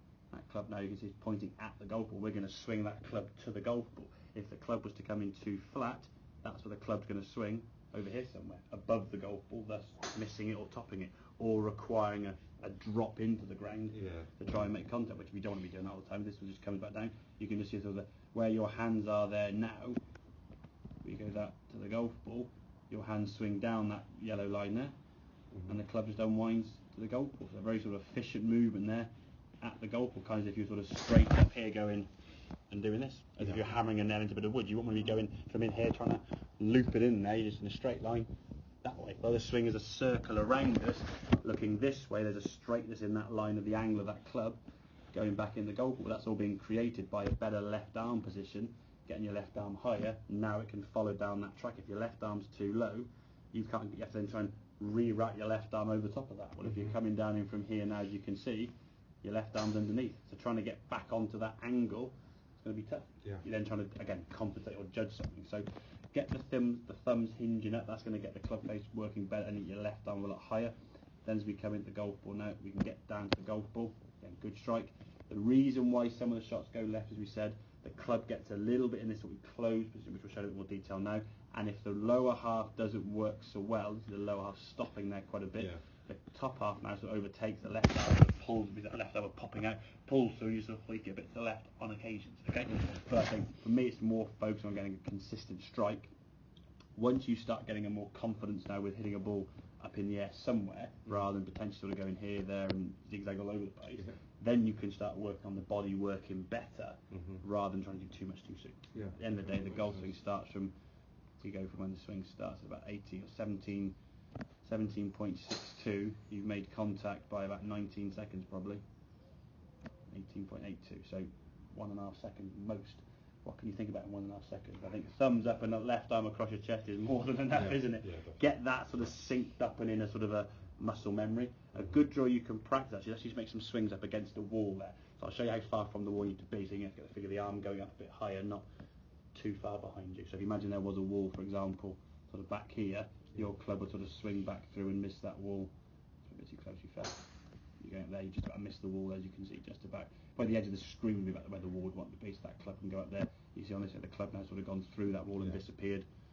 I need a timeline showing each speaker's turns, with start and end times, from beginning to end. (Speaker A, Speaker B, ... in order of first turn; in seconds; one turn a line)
Speaker A: 0.3-20.0
Speaker B: 13.9-14.4
Speaker A: 21.0-24.9
Speaker B: 25.5-25.8
Speaker A: 25.7-32.1
Speaker A: 32.7-38.3
Speaker A: 38.8-44.6
Speaker A: 45.1-96.1
Speaker A: 97.0-110.7
Speaker B: 107.1-107.4
Speaker B: 108.9-110.0
Speaker A: 111.4-114.0
Speaker A: 114.6-118.8
Speaker A: 120.1-138.7
Speaker B: 127.5-128.4
Speaker A: 139.3-145.7
Speaker A: 146.3-147.2
Speaker A: 147.8-156.1